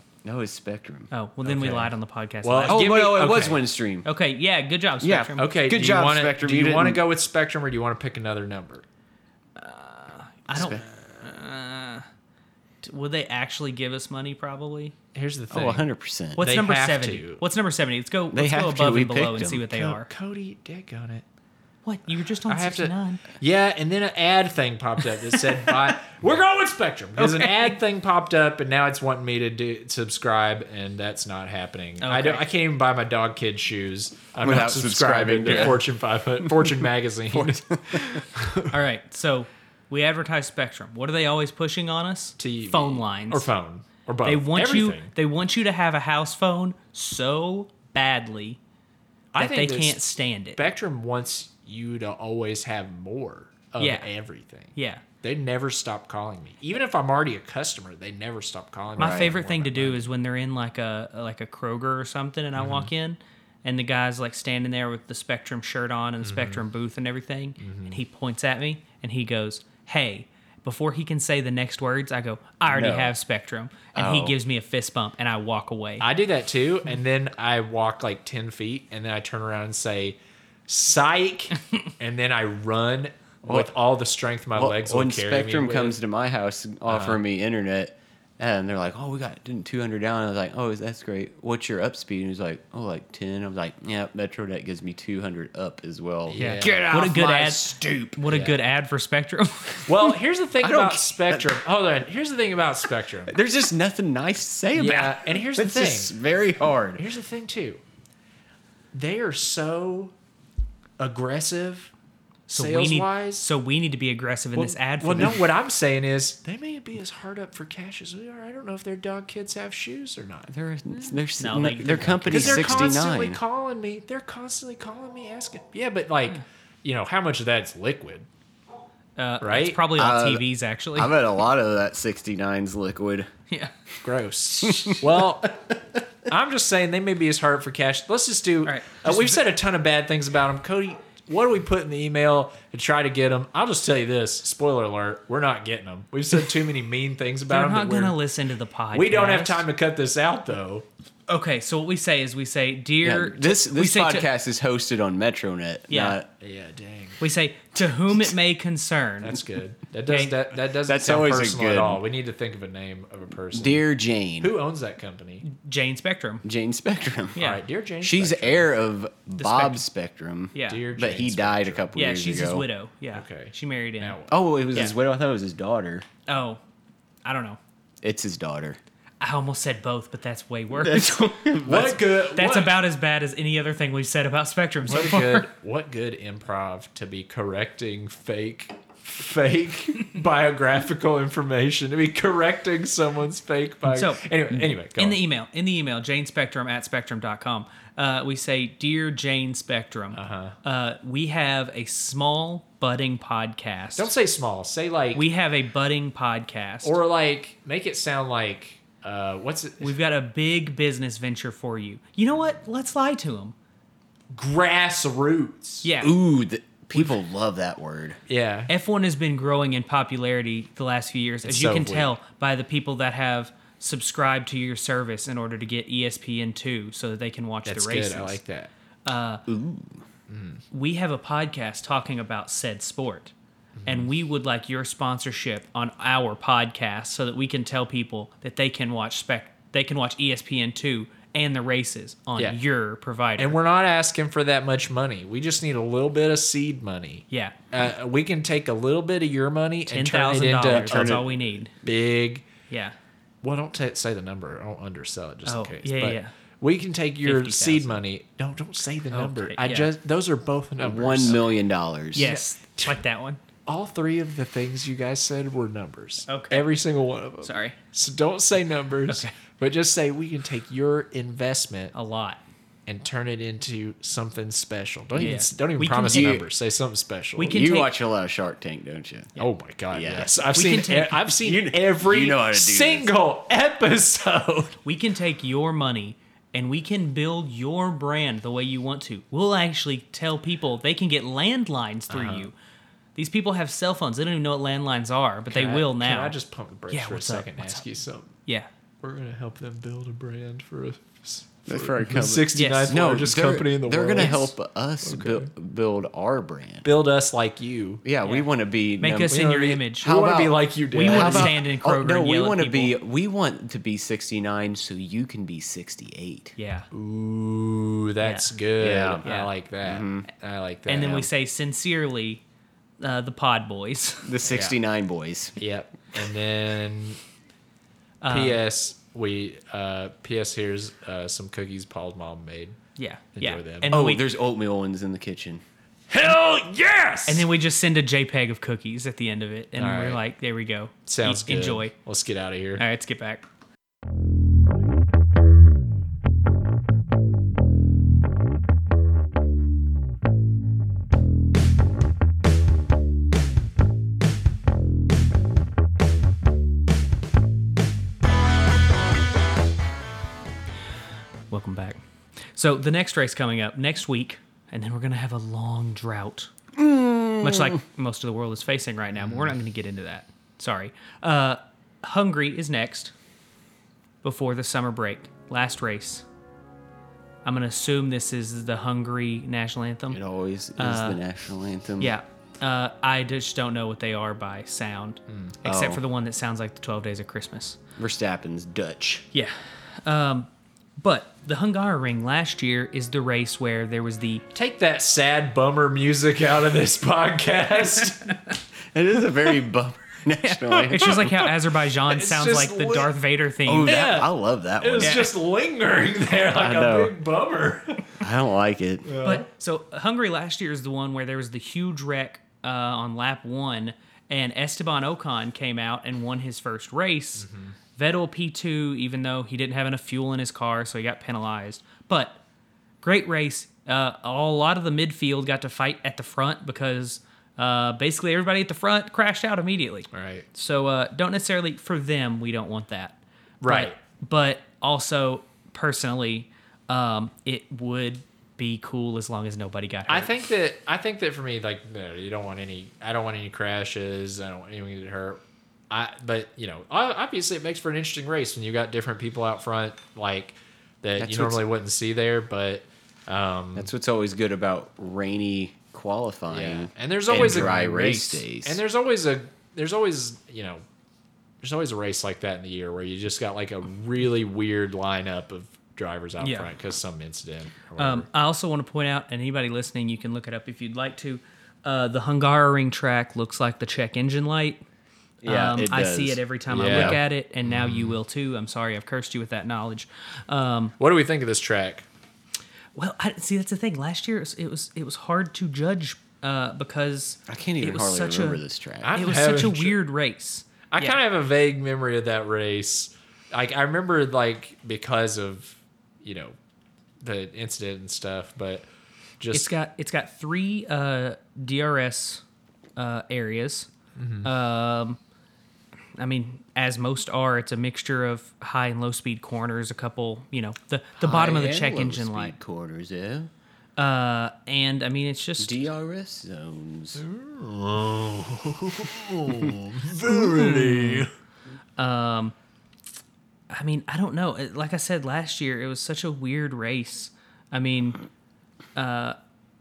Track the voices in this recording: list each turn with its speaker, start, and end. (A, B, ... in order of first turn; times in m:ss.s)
0:00.2-0:01.1 A
0:01.1-0:02.9 B
0:01.4-0:03.6 C
0:02.6-0:04.1 A
0:04.0-0:05.6 B
0:05.0-0:07.0 A
0:05.4-0:08.8 C
0:09.6-0:12.1 B
0:10.5-0:10.8 A
0:12.8-0:14.9 B
0:15.1-0:15.9 C
0:15.5-0:16.5 A
0:16.4-0:20.1 B
0:16.4-0:17.4 C
0:18.3-0:19.6 A
0:19.6-0:21.2 C
0:21.8-0:23.2 B
0:22.5-0:38.7 C
0:27.2-0:27.7 B
0:32.0-0:32.5 B
0:34.4-0:35.8 A
0:35.5-0:35.8 B
0:36.4-0:38.3 A
0:38.7-0:43.5 B
0:42.4-0:45.1 C
0:44.2-0:48.6 B
0:49.3-0:50.0 C
0:49.4-0:50.6 B
0:50.6-1:00.1 C
0:53.8-0:54.1 B
0:54.8-0:55.0 B
0:59.0-0:59.3 A
0:59.0-1:16.0 B
1:02.6-1:02.9 C
1:06.2-1:06.6 C
1:07.6-1:08.0 C
1:12.7-1:13.1 A
1:14.0-1:14.4 A
1:16.0-1:26.0 C
1:23.4-1:23.7 A
1:24.6-1:38.6 A
1:26.9-1:27.2 C
1:36.3-1:36.8 C
1:36.4-1:40.2 B
1:39.9-1:43.3 C
1:40.6-1:41.5 A
1:43.3-1:47.0 A
1:44.8-1:46.2 C
1:47.0-1:47.8 C
1:48.9-1:50.1 C
1:51.0-1:51.9 C
1:52.5-1:55.4 B
1:52.5-1:53.5 C
1:54.6-2:00.5 C
2:00.5-2:03.4 A
2:01.4-2:03.0 B
2:02.3-2:08.3 C
2:09.2-2:11.1 B
2:09.4-2:09.8 C
2:09.9-2:13.3 A
2:14.0-2:15.6 C
2:14.6-2:15.0 A
2:16.3-2:28.2 C
2:18.6-2:19.4 B
2:27.5-2:29.6 B
2:28.9-2:30.8 C
2:31.3-2:34.3 B
2:33.0-2:36.3 A
2:35.9-2:36.2 B
2:36.4-2:37.2 C
2:37.2-2:39.4 B
2:39.2-2:43.8 C
2:40.1-2:40.4 B
2:40.9-2:42.0 A
2:43.5-2:44.5 A
2:44.4-2:45.5 C
2:45.4-2:46.4 B
2:46.4-2:47.4 A
2:47.4-2:47.6 B
2:47.4-2:48.7 C
2:48.0-2:52.6 A
2:49.4-2:49.8 B
2:50.6-2:50.8 B
2:50.6-2:51.9 C
2:51.9-2:54.2 B
2:53.1-2:54.4 C
2:54.3-2:56.0 A
2:56.3-2:56.6 B
2:57.2-2:57.6 B
2:58.0-2:58.8 A
2:59.2-3:01.6 B
3:00.7-3:02.0 A
3:01.6-3:02.8 C
3:02.3-3:05.5 B
3:04.9-3:15.2 C
3:13.9-3:24.1 B
3:20.1-3:20.6 C
3:24.0-3:25.2 C
3:25.1-3:27.0 B
3:26.8-3:29.9 C
3:29.8-3:33.5 B
3:34.3-3:35.9 C
3:35.8-3:36.2 B
3:36.0-3:38.2 A
3:38.3-3:38.7 C
3:38.7-3:48.4 B
3:41.4-3:42.1 C
3:47.6-3:48.7 C
3:49.1-3:49.5 B
3:49.5-3:50.0 A
3:50.3-3:50.6 C
3:50.7-3:53.3 B
3:53.8-3:54.1 C
3:53.9-4:03.6 B
4:03.4-4:11.3 C
4:07.3-4:07.6 B
4:09.9-4:11.7 B
4:10.7-4:11.3 A
4:11.8-4:12.5 C
4:12.7-4:13.0 B
4:13.4-4:21.4 C
4:15.4-4:16.3 B
4:17.2-4:18.0 B
4:19.1-4:19.9 B
4:20.8-4:22.3 A
4:22.1-4:23.4 B
4:22.2-4:23.0 C
4:23.6-4:31.9 C
4:26.3-4:26.7 B
4:27.4-4:27.8 B
4:31.9-4:32.4 B
4:32.9-4:37.6 C
4:35.2-4:36.5 B
4:36.0-4:36.4 A
4:37.4-4:38.0 B
4:37.5-4:39.3 A
4:39.4-4:44.8 C
4:39.9-4:40.4 A
4:40.6-4:41.3 B
4:41.4-4:43.1 A
4:44.8-4:52.5 B
4:52.1-4:52.5 C
4:53.2-4:56.4 B
4:55.5-4:58.3 C
4:56.9-4:57.8 B
4:59.0-5:04.5 C
5:01.7-5:06.9 A
5:02.5-5:03.0 B
5:04.2-5:04.5 B
5:05.0-5:05.5 C
5:06.8-5:08.0 C
5:08.0-5:09.4 A
5:08.2-5:10.1 B
5:09.3-5:11.6 C
5:10.0-5:16.6 A
5:10.9-5:13.0 B
5:16.6-5:16.9 B
5:16.9-5:21.3 C
5:18.2-5:18.5 B
5:18.8-5:19.2 A
5:19.2-5:19.5 B
5:19.8-5:20.3 A
5:20.9-5:22.4 B
5:23.0-5:24.3 B
5:24.2-5:25.6 A
5:24.5-5:24.8 C
5:25.6-5:27.2 C
5:28.2-5:28.6 B
5:28.3-5:32.8 C
5:33.0-5:34.2 B
5:33.4-5:33.9 C
5:33.9-5:35.6 A
5:36.1-5:37.5 C
5:37.3-5:41.9 B
5:39.8-5:40.2 C
5:41.1-5:42.8 C
5:42.8-5:43.4 B
6:01.5-6:02.0 B
6:02.5-6:06.5 B
6:06.8-6:07.8 A
6:07.4-6:13.1 B
6:09.2-6:09.5 C
6:14.2-6:16.2 B
6:17.4-6:20.2 B
6:20.1-6:22.1 A
6:20.8-6:21.2 B
6:22.0-6:27.8 B
6:25.3-6:25.5 C
6:25.6-6:26.0 A
6:28.0-6:29.3 A
6:29.3-6:30.5 B
6:31.0-6:34.4 B
6:34.5-6:38.4 C
6:38.9-6:41.4 A
6:40.5-6:44.1 B
6:41.0-6:41.5 C
6:42.0-6:43.1 C
6:43.6-6:45.3 A
6:43.8-6:48.2 C
6:45.0-6:45.3 B
6:46.6-6:47.1 A
6:48.2-6:49.1 A
6:49.1-6:49.5 C
6:49.2-7:02.4 B
6:57.4-6:57.8 C
7:03.0-7:20.3 B
7:10.1-7:10.4 C
7:13.6-7:14.0 C
7:20.1-7:25.4 C
7:25.9-7:33.9 C
7:31.2-7:31.6 A
7:33.7-7:38.8 A
7:36.5-7:40.8 C
7:41.6-7:48.3 C
7:46.4-7:46.7 B
7:48.0-7:54.8 B
7:55.4-7:57.2 A
7:55.4-8:01.0 B
7:56.7-7:58.2 C
8:01.0-8:02.0 C
8:03.0-8:08.6 B
8:07.5-8:09.2 A
8:09.0-8:10.0 C
8:09.1-8:11.2 B
8:10.9-8:16.6 C
8:17.2-8:18.9 C
8:19.4-8:19.7 C
8:19.5-8:22.4 B
8:23.0-8:23.9 B
8:24.2-8:24.5 C
8:24.4-8:25.2 B
8:26.2-8:32.6 B
8:31.2-8:33.5 A
8:34.0-8:35.9 B
8:35.6-8:37.2 A
8:37.2-8:41.3 C
8:40.2-8:41.3 B
8:42.0-8:42.5 B
8:43.7-8:48.2 B
8:49.0-8:49.4 B